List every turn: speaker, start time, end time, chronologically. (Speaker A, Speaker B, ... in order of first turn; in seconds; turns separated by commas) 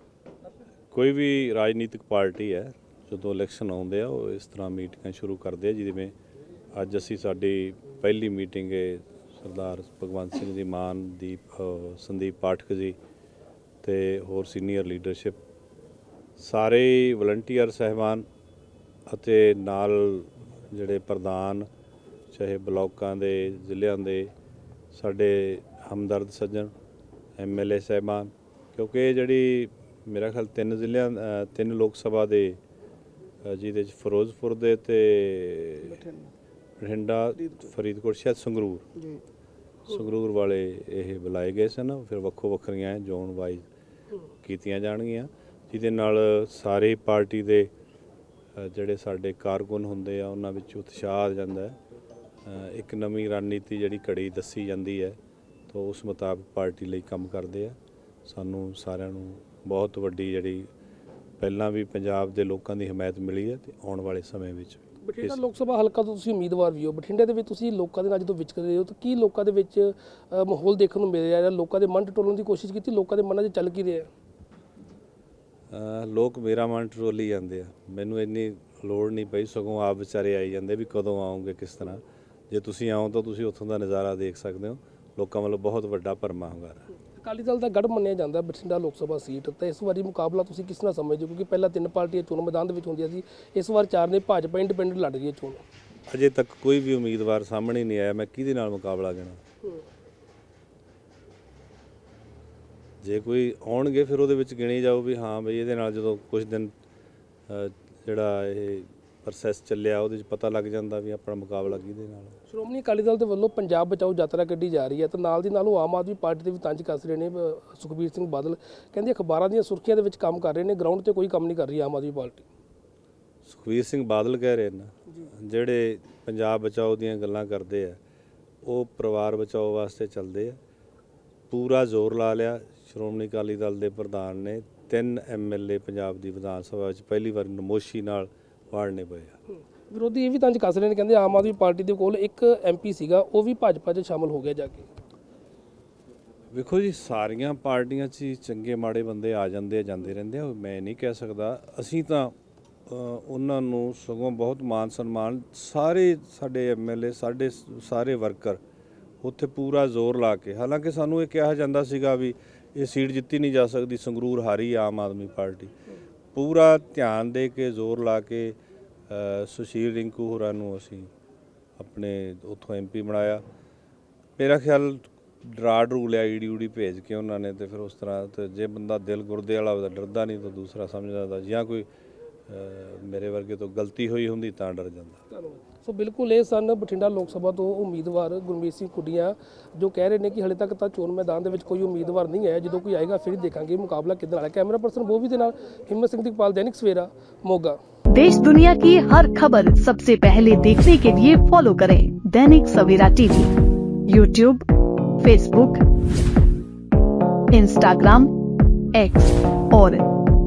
Speaker A: 0.9-6.1, Speaker A: 6.7-13.0, Speaker A: 13.8-15.4, Speaker A: 16.4-18.3, Speaker A: 19.1-21.7, Speaker A: 22.3-24.3, Speaker A: 24.9-26.7, Speaker A: 27.4-32.6, Speaker A: 33.4-36.1, Speaker A: 36.8-38.9, Speaker A: 39.9-43.7, Speaker A: 44.4-47.7, Speaker A: 48.5-51.8, Speaker A: 52.4-55.2, Speaker A: 55.7-60.7, Speaker A: 61.4-65.4, Speaker B: 65.0-74.1, Speaker A: 75.7-86.8, Speaker B: 87.1-95.6, Speaker A: 96.1-99.4, Speaker A: 103.0-106.7, Speaker A: 107.5-112.4, Speaker B: 112.5-122.5, Speaker A: 123.5-128.0, Speaker A: 128.6-130.6, Speaker A: 131.5-139.4, Speaker B: 139.9-144.9, Speaker A: 146.5-152.3, Speaker A: 152.9-158.6, Speaker A: 159.2-165.7, Speaker A: 166.3-168.6, Speaker A: 169.1-171.1, Speaker A: 171.8-173.4, Speaker A: 174.4-181.9, Speaker A: 182.5-185.2, Speaker B: 185.3-197.8, Speaker C: 198.1-203.5, Speaker C: 204.1-204.6, Speaker C: 205.2-205.8, Speaker C: 207.5-208.3, Speaker C: 208.9-210.1